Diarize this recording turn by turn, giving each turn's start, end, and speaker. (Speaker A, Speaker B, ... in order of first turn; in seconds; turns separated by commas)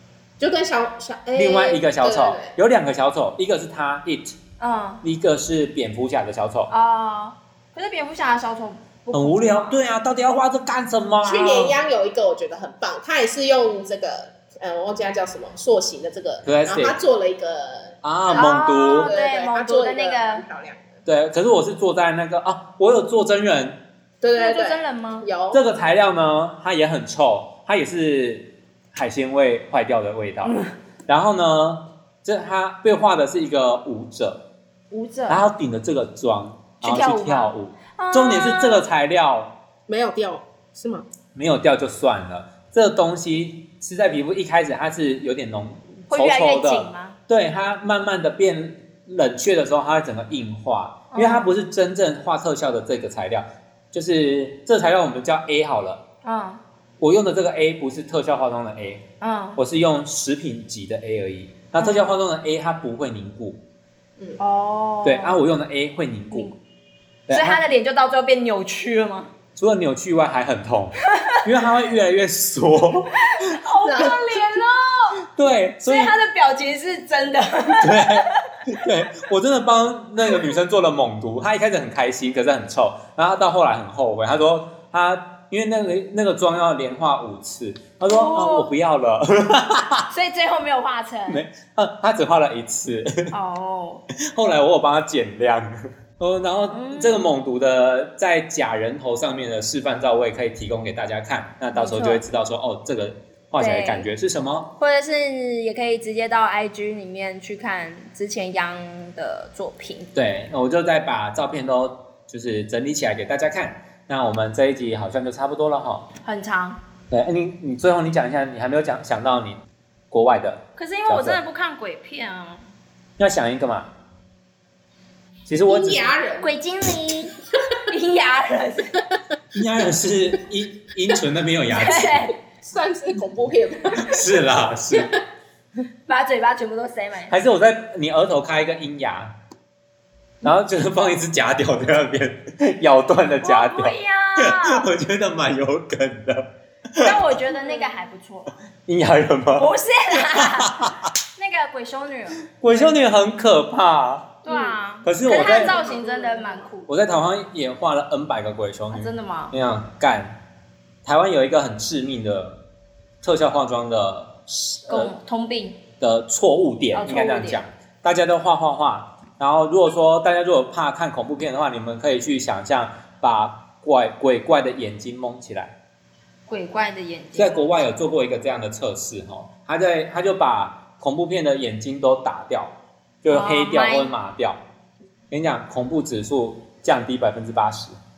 Speaker A: 0.4-2.5, Speaker B: 1.3-4.4, Speaker C: 4.6-5.0, Speaker B: 5.0-6.7, Speaker C: 6.7-9.8, Speaker B: 9.1-11.8, Speaker A: 11.2-21.0, Speaker B: 16.4-17.0, Speaker B: 18.0-19.1, Speaker C: 18.4-20.4, Speaker B: 21.0-23.8, Speaker A: 24.2-25.6, Speaker C: 24.4-25.3, Speaker B: 25.5-34.4, Speaker C: 30.4-30.7, Speaker C: 34.9-35.4, Speaker B: 35.3-39.5, Speaker C: 36.8-38.9, Speaker A: 39.9-41.0, Speaker B: 41.3-56.0, Speaker C: 46.1-47.2, Speaker C: 51.1-51.5, Speaker C: 56.2-56.6, Speaker B: 57.0-59.0, Speaker C: 59.2-59.6, Speaker B: 59.6-63.6, Speaker C: 61.8-62.2, Speaker C: 64.4-65.4, Speaker B: 65.0-66.5, Speaker C: 66.3-66.6, Speaker B: 67.3-67.6, Speaker C: 67.3-69.3, Speaker B: 69.5-73.4, Speaker C: 73.2-75.2, Speaker A: 73.8-74.6, Speaker B: 75.3-76.1, Speaker C: 75.8-78.4, Speaker B: 77.8-90.1, Speaker C: 88.1-88.7, Speaker C: 90.1-91.4, Speaker B: 91.3-93.3, Speaker C: 93.3-94.0, Speaker B: 94.1-104.7, Speaker C: 96.7-97.2, Speaker C: 101.7-102.2, Speaker C: 103.6-104.1, Speaker C: 104.8-110.1, Speaker B: 110.1-116.1, Speaker C: 116.2-116.8, Speaker B: 117.1-121.4, Speaker C: 120.8-122.7, Speaker B: 123.2-123.9, Speaker B: 125.5-126.1, Speaker A: 125.7-126.5, Speaker C: 126.4-127.3, Speaker C: 127.9-129.0, Speaker B: 129.5-132.3, Speaker C: 131.7-132.3, Speaker A: 132.6-134.2, Speaker B: 134.0-135.1, Speaker C: 136.1-137.3, Speaker B: 137.3-139.3, Speaker B: 140.4-147.4, Speaker C: 143.4-144.9, Speaker C: 147.0-148.5, Speaker B: 148.9-151.1, Speaker C: 149.6-150.8, Speaker C: 151.3-152.9, Speaker B: 152.6-154.4, Speaker C: 154.4-156.9, Speaker A: 154.5-154.7, Speaker B: 155.0-155.8, Speaker A: 155.2-156.7, Speaker B: 156.9-160.3, Speaker C: 158.9-159.5, Speaker B: 161.0-162.6, Speaker B: 163.2-165.1, Speaker C: 164.9-165.8, Speaker B: 166.0-175.7, Speaker C: 166.9-167.6, Speaker C: 176.5-177.7, Speaker B: 177.3-184.6, Speaker C: 183.3-184.1, Speaker B: 185.3-188.0